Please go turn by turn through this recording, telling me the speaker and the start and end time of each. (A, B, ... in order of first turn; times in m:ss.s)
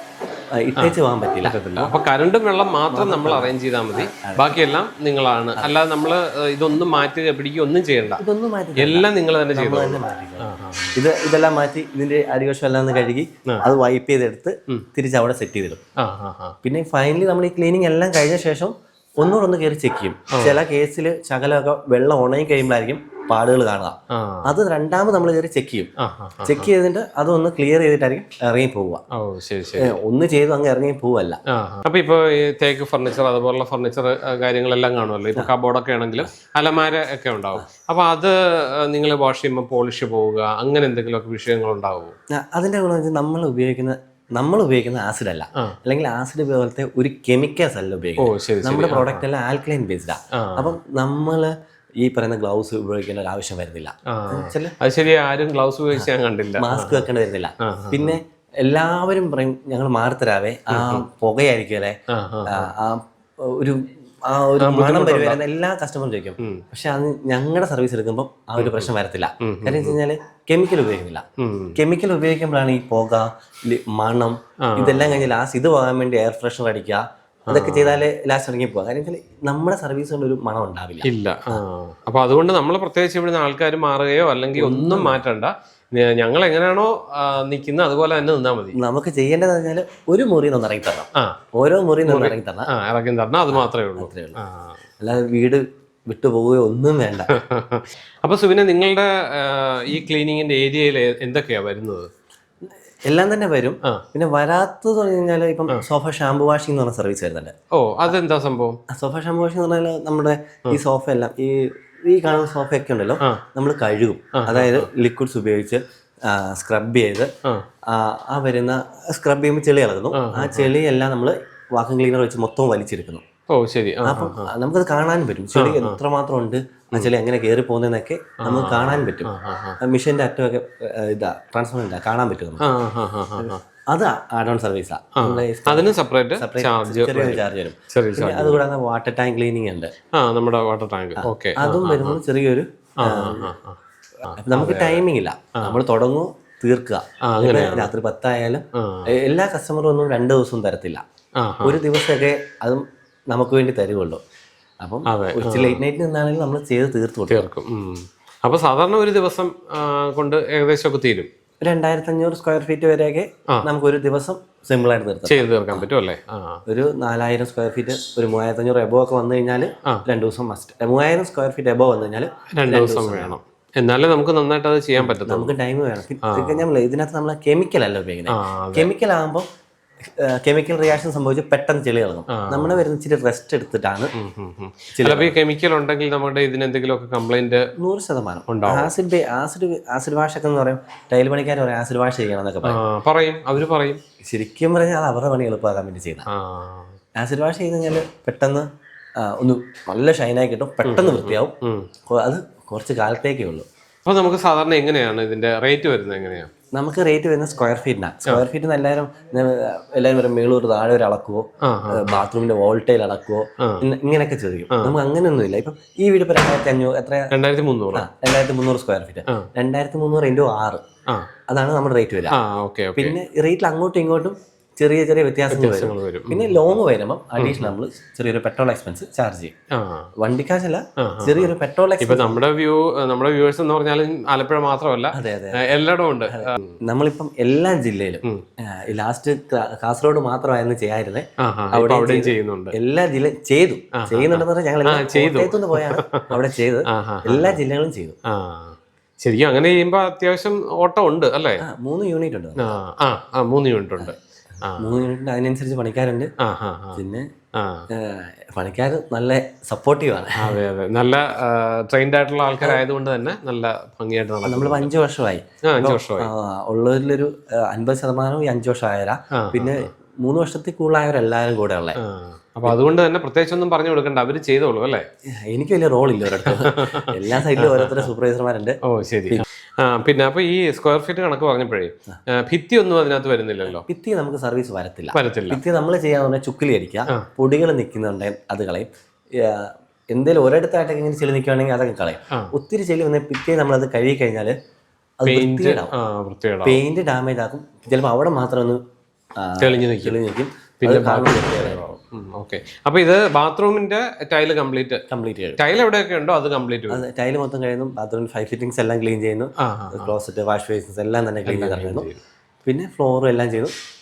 0:00.5-0:01.9 A
0:00.8-0:08.2 B
0:02.9-0:04.6 A
0:08.2-0:15.8 A
0:08.8-0:11.0 B
0:16.0-0:16.6 B
0:16.6-0:25.9 A
0:20.3-0:20.6 B
0:24.1-0:24.5 B
0:26.0-0:26.7 B
0:26.4-0:29.0 A
0:29.2-0:30.0 B
0:29.8-0:31.4 A
0:31.5-0:42.1 B
0:42.3-0:54.7 A
0:48.2-0:49.2 B
0:50.4-0:50.8 B
0:54.1-0:57.1 B
0:55.9-1:02.0 A
0:57.6-0:58.2 B
1:00.7-1:01.0 B
1:02.1-1:02.7 B
1:02.5-1:11.2 A
1:04.6-1:05.4 B
1:08.6-1:08.9 B
1:09.4-1:10.0 B
1:11.4-1:11.8 B
1:11.8-1:21.6 A
1:14.7-1:15.2 B
1:17.5-1:18.0 B
1:21.0-1:28.8 B
1:24.5-1:25.2 A
1:28.7-1:32.7 A
1:32.0-1:34.8 B
1:33.5-1:34.4 A
1:35.0-1:37.3 A
1:37.3-1:42.1 B
1:43.0-1:47.5 A
1:47.8-1:48.8 B
1:48.9-1:57.3 A
1:54.4-1:54.9 B
1:57.9-2:03.2 A
2:00.1-2:00.7 B
2:03.5-2:04.5 B
2:04.0-2:09.3 A
2:05.5-2:06.0 B
2:08.4-2:09.8 B
2:09.8-2:12.6 A
2:12.6-2:13.6 B
2:13.4-2:19.9 A
2:15.2-2:18.6 B
2:20.2-2:22.2 B
2:21.2-2:23.5 A
2:23.0-2:25.0 B
2:24.4-2:31.0 A
2:27.3-2:27.9 B
2:28.8-2:29.1 B
2:31.4-2:31.8 B
2:31.6-2:34.2 A
2:34.8-2:37.5 A
2:35.1-2:35.8 B
2:37.3-2:41.3 B
2:41.6-2:45.8 A
2:45.3-2:46.6 B
2:46.7-2:53.3 A
2:52.6-2:55.6 B
2:55.0-2:59.4 A
2:56.2-2:56.6 B
2:58.3-2:58.9 B
3:00.2-3:04.1 A
3:02.3-3:02.8 B
3:04.2-3:07.6 B
3:04.9-3:05.4 A
3:07.8-3:12.8 A
3:08.5-3:08.9 B
3:12.6-3:14.0 B
3:14.2-3:16.3 A
3:16.3-3:17.0 B
3:17.2-3:18.6 A
3:19.2-3:21.5 A
3:20.8-3:21.9 B
3:22.1-3:23.6 A
3:24.0-3:26.5 B
3:26.8-3:37.3 A
3:31.6-3:32.2 B
3:37.3-3:38.1 B
3:37.9-3:40.8 A
3:41.5-3:42.3 A
3:42.3-3:43.1 B
3:43.0-3:49.5 A
3:45.5-3:46.5 B
3:47.4-3:47.7 B
3:49.7-3:50.1 B
3:50.2-3:52.4 A
3:51.0-3:56.8 B
3:55.1-3:55.6 A
3:56.3-4:08.2 A
4:01.4-4:02.7 B
4:04.0-4:06.4 B
4:06.9-4:07.6 B
4:08.3-4:11.6 B
4:11.6-4:12.7 A
4:12.6-4:15.0 B
4:14.8-4:16.3 A
4:16.4-4:17.0 B
4:17.0-4:17.3 A
4:17.6-4:17.9 B
4:17.9-4:20.6 A
4:20.4-4:24.9 B
4:24.4-4:32.0 A
4:25.7-4:26.3 B
4:29.4-4:29.9 B
4:32.0-4:35.0 B
4:35.5-4:38.8 A
4:36.4-4:38.1 B
4:38.9-4:43.8 B
4:43.7-4:54.5 A
4:45.1-4:45.6 B
4:55.2-4:55.9 A
4:55.3-4:56.8 B
4:56.6-4:58.8 A
4:59.4-5:01.8 A
4:59.6-5:00.2 B
5:00.8-5:05.0 B
5:05.1-5:05.6 A
5:05.6-5:07.0 B
5:06.9-5:12.1 A
5:09.6-5:10.1 B
5:11.4-5:12.2 B
5:12.6-5:13.7 A